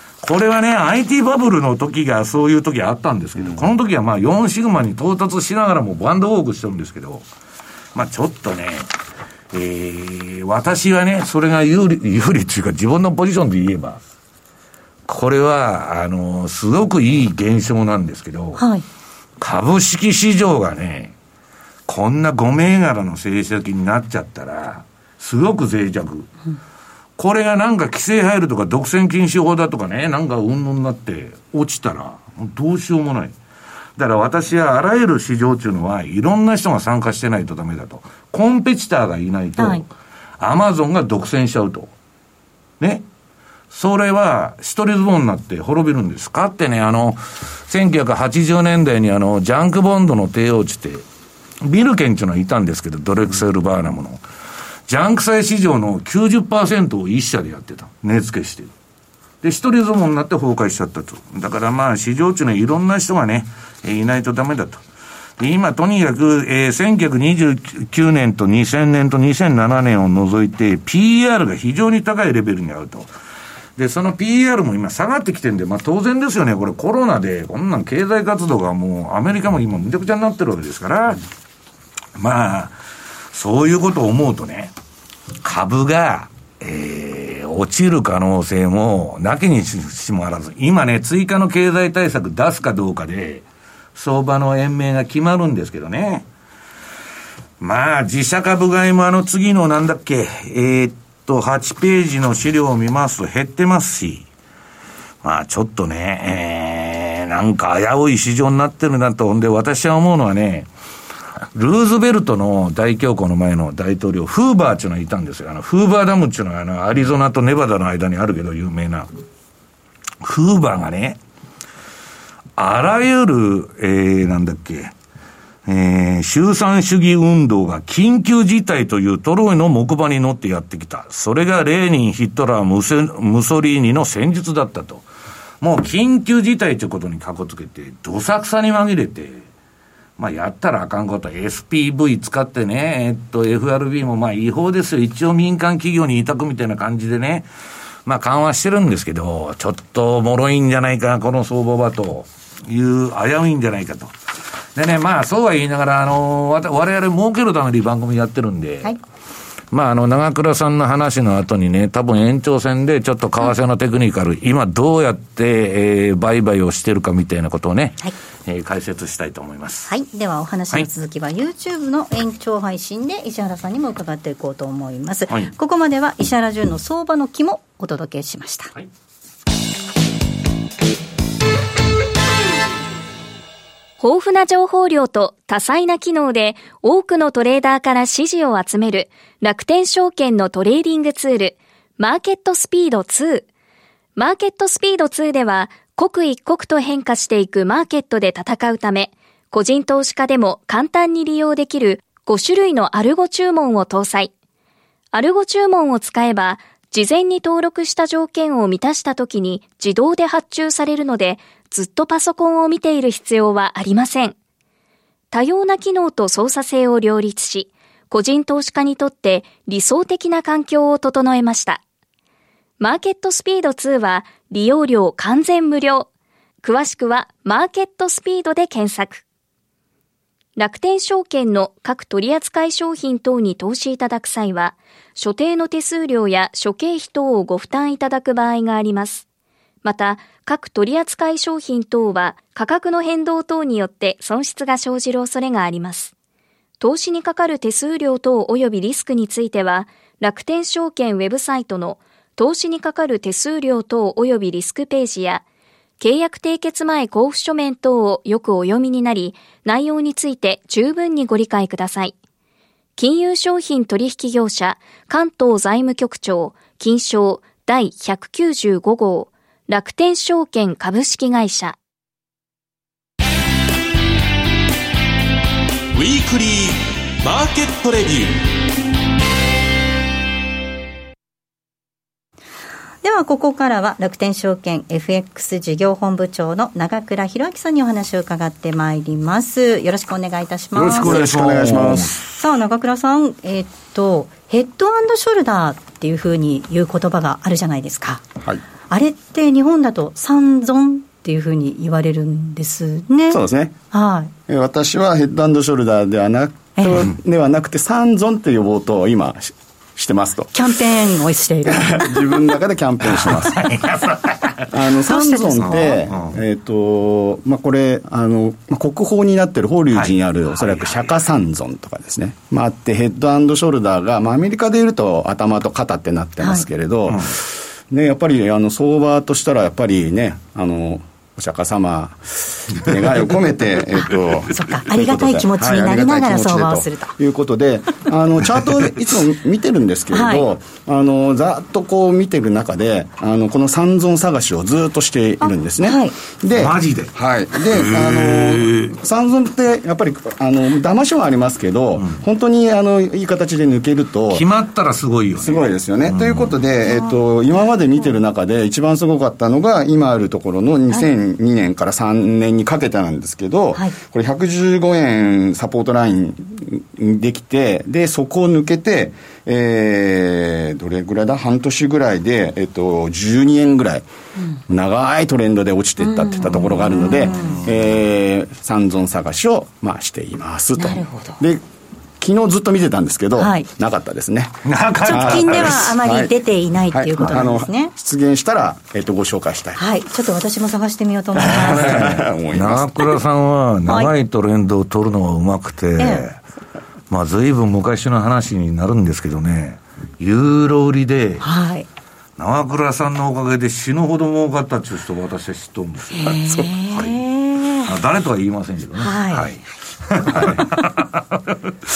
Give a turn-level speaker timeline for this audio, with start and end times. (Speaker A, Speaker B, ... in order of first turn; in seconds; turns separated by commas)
Speaker A: 0.2-7.2, Speaker A: 8.0-8.9, Speaker A: 9.5-14.0, Speaker A: 15.1-18.6, Speaker B: 18.6-18.8, Speaker A: 19.4-21.1, Speaker A: 21.9-26.3, Speaker A: 27.2-33.4, Speaker A: 34.0-41.9, Speaker B: 39.6-39.8, Speaker A: 42.8-43.0, Speaker A: 43.7-51.0, Speaker A: 51.6-54.2, Speaker A: 54.9-58.7, Speaker A: 59.4-64.8, Speaker A: 65.4-73.1, Speaker A: 73.8-81.2, Speaker A: 82.2-82.8, Speaker A: 83.3-84.7, Speaker A: 85.4-93.5, Speaker A: 94.0-96.3, Speaker A: 97.6-104.3, Speaker A: 105.2-110.7, Speaker A: 111.5-119.1, Speaker A: 120.2-121.2, Speaker A: 122.6-124.9, Speaker A: 125.7-135.1, Speaker A: 135.6-139.4, Speaker A: 140.2-147.5, Speaker A: 148.1-154.1, Speaker A: 154.8-159.0, Speaker A: 159.7-169.9, Speaker B: 169.9-178.7, Speaker C: 184.0-193.5, Speaker C: 194.2-204.3, Speaker C: 205.1-214.3, Speaker C: 215.3-221.8, Speaker C: 222.8-226.1, Speaker C: 226.6-229.2, Speaker C: 230.6-239.2, Speaker C: 239.8-246.1, Speaker C: 246.8-255.4, Speaker C: 256.0-262.1, Speaker C: 263.0-271.8, Speaker D: 275.9-278.4, Speaker B: 283.0-291.2, Speaker E: 290.8-292.2, Speaker A: 290.8-292.3, Speaker B: 292.3-298.2, Speaker B: 298.9-303.4, Speaker E: 303.3-303.8, Speaker B: 303.9-304.3, Speaker E: 304.5-310.6, Speaker B: 306.8-307.1, Speaker B: 310.5-312.5, Speaker E: 311.7-313.6, Speaker A: 313.1-314.7, Speaker E: 314.7-354.5, Speaker B: 315.0-316.0, Speaker A: 315.6-316.4, Speaker A: 319.9-321.2, Speaker B: 334.5-337.1, Speaker B: 340.1-340.5, Speaker B: 345.5-346.1, Speaker A: 346.5-348.9, Speaker A: 354.3-356.5, Speaker E: 355.4-374.1, Speaker B: 356.9-357.2, Speaker E: 374.7-381.6, Speaker B: 376.0-377.6, Speaker A: 376.5-377.7, Speaker B: 380.8-381.4, Speaker E: 382.2-384.6, Speaker B: 383.4-383.7, Speaker A: 384.7-385.9, Speaker B: 385.0-387.9, Speaker E: 385.1-386.4, Speaker E: 386.9-389.8, Speaker B: 389.8-392.1, Speaker E: 391.4-393.2, Speaker A: 391.4-396.4, Speaker B: 396.0-396.3, Speaker A: 397.1-401.4, Speaker B: 401.4-401.9, Speaker A: 402.4-407.2, Speaker B: 406.1-407.9, Speaker A: 407.8-411.7, Speaker B: 409.0-409.5